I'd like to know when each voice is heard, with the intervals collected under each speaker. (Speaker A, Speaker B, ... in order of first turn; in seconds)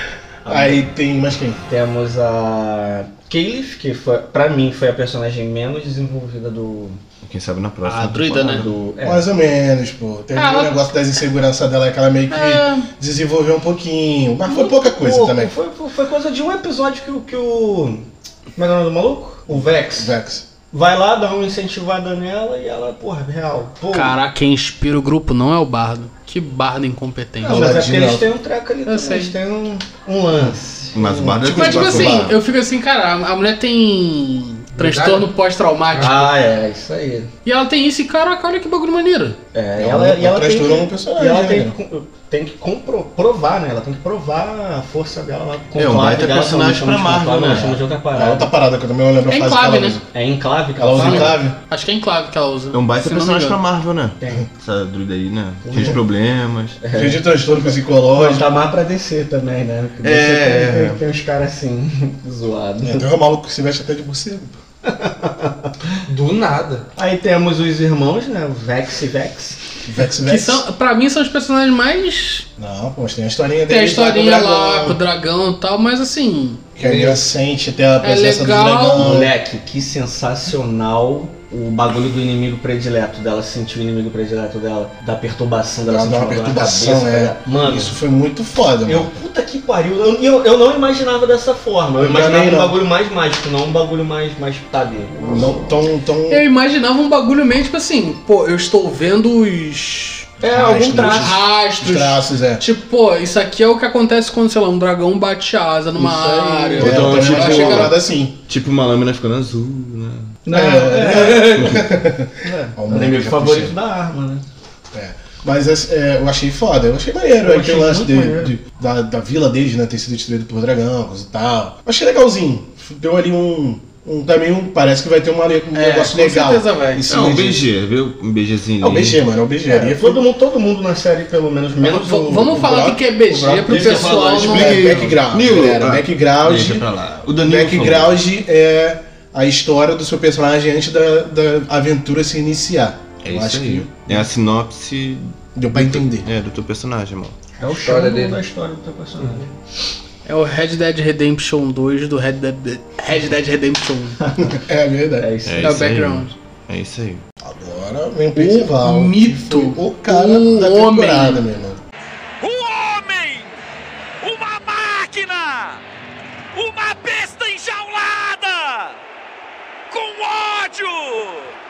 Speaker A: 0.4-0.8, 1.7-7.0, 8.5-9.3, 14.5-20.1, 20.7-24.2, 27.4-31.4, 36.0-37.3, 39.5-48.5, 50.1-51.4, 54.2-54.5, 55.7-56.0, 56.8-57.3, 58.1-63.1, 64.8-65.7, 67.0-69.6, 78.9-88.0, 88.8-95.7, 100.4-101.4, 106.0-107.2, 110.5-111.8, 112.4-114.5, 117.4-118.5, 129.7-132.7, 133.7-135.2, 147.6-149.5, 154.2-154.6, 155.2-155.8
Speaker B: 0.5-1.6, 9.0-15.6, 19.5-20.5, 27.4-28.3, 31.3-32.3, 39.8-41.8, 48.1-50.0, 50.8-51.6, 56.9-58.5, 62.8-64.6, 69.9-70.7, 72.6-75.0, 76.8-79.3, 85.8-89.1, 92.0-92.8, 95.2-96.5, 100.4-102.6, 106.8-108.4, 110.5-113.8, 114.9-127.7, 128.8-130.3, 131.8-136.9, 137.4-144.1, 145.6-146.3, 147.7-148.0, 154.4-155.3, 157.4-161.8
Speaker C: 7.2-8.9, 30.9-32.4, 45.8-47.8, 52.7-56.8, 60.0-61.0, 106.8-108.0, 108.5-110.4, 111.3-111.8, 127.1-129.2, 133.7-138.2, 143.2-147.4, 155.5-157.2
Speaker D: 7.8-8.7, 10.3-10.8, 12.3-12.9, 23.9-27.8, 28.9-29.4, 31.6-36.2, 37.5-39.4, 49.3-50.0, 51.0-53.6, 70.2-72.5, 73.7-76.6, 78.0-79.1, 96.3-100.3, 101.1-108.0, 131.9-134.9, 150.2-154.2, 155.6-156.3, 158.3-161.5
Speaker E: 34.8-35.3, 35.9-36.3, 66.1-66.9, 76.8-77.3, 125.8-127.0, 147.8-148.4
Speaker F: 162.4-163.6, 164.2-165.8, 166.5-169.0, 169.9-171.5